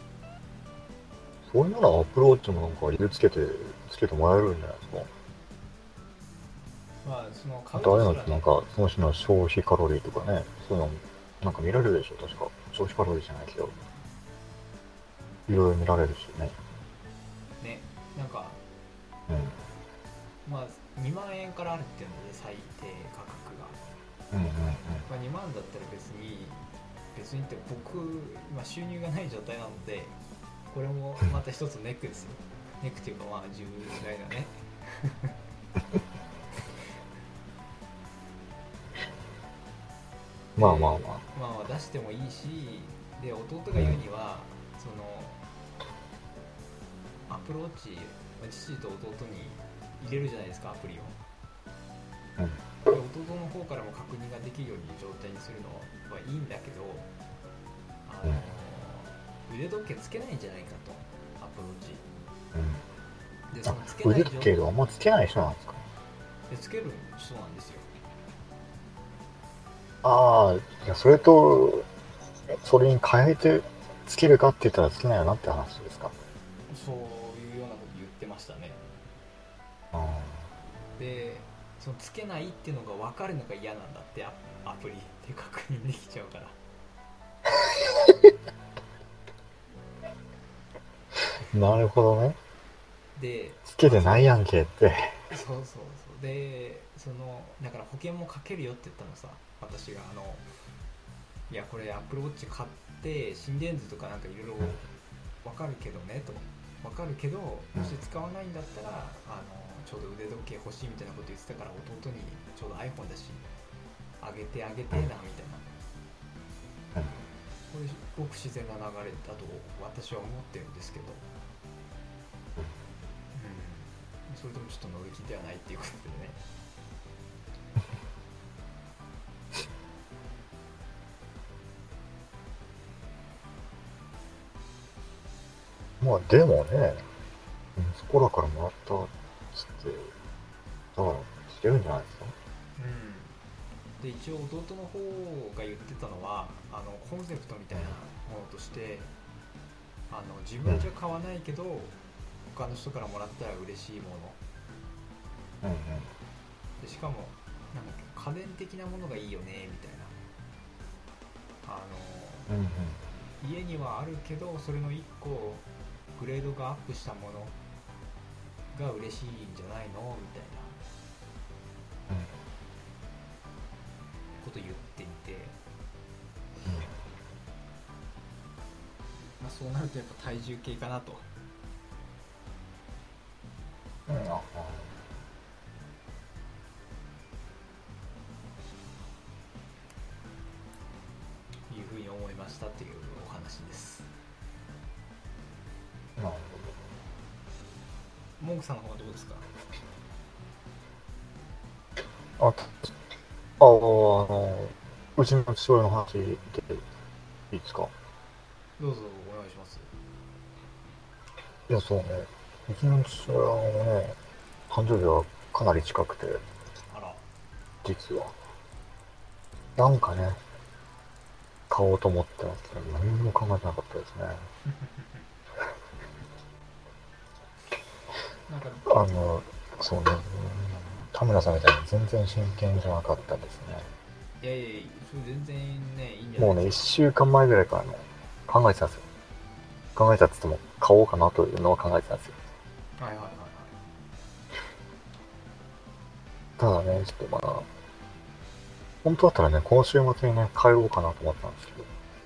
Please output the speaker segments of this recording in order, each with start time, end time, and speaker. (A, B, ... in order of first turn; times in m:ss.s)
0:01.5-0:05.1 A
0:07.0-0:08.5 B
0:07.8-0:13.8 A
0:15.5-0:16.6 A
0:17.6-0:18.6 B
0:19.3-0:19.6 A
0:20.4-0:23.8 B
0:24.3-0:25.1 A
0:25.1-0:30.2 B
0:30.7-0:35.3 B
0:40.6-0:41.2 A
0:40.6-0:45.4 B
0:47.3-0:51.2 B
0:52.9-0:57.1 B
0:58.1-1:02.0 B
1:02.5-1:02.8 A
1:03.5-1:04.6 B
1:03.6-1:05.9 A
1:06.5-1:07.9 B
1:10.0-1:11.9 A
1:12.5-1:16.1 A
1:16.7-1:18.8 B
1:19.9-1:20.5 A
1:21.0-1:26.6 B
1:31.5-1:32.4 A
1:33.2-1:34.4 B
1:33.7-1:35.2 A
1:35.3-1:40.5 B
1:41.5-1:44.8 B
1:45.4-1:53.4 B
1:54.2-1:55.7 B
1:57.7-2:01.3 B
2:03.3-2:06.4 B
2:16.0-2:17.1 A
2:17.8-2:20.1 A
2:21.0-2:22.4 A
2:22.8-2:23.4 B
2:24.0-2:29.1 B
2:30.1-2:32.0 B
2:32.5-2:34.4 B
2:35.6-2:36.1 A
2:36.8-2:40.2 B
2:41.6-2:42.5 B
2:42.5-2:43.0 A
2:43.4-2:47.6 B
2:48.7-2:50.8 B
2:52.1-2:52.4 A
2:54.4-2:55.6 B
2:56.6-2:56.9 A
2:59.4-3:01.3 B
3:04.1-3:04.9 A
3:11.7-3:14.1 B
3:16.2-3:16.8 A
3:18.4-3:19.5 B
3:22.4-3:22.9 A
3:23.6-3:26.8 A
3:27.5-3:27.9 A
3:28.8-3:29.9 B
3:31.7-3:34.2 A
3:34.7-3:36.4 A
3:36.9-3:37.2 B
3:37.8-3:38.4 A
3:39.8-3:40.4 A
3:41.7-3:44.5 A
3:44.8-3:45.0 B
3:48.5-3:48.9 B
3:48.9-3:53.9 A
3:54.4-3:56.9 B
3:56.4-3:59.0 A
4:00.0-4:02.4 A
4:03.0-4:03.7 B
4:06.6-4:07.7 A
4:09.0-4:11.9 A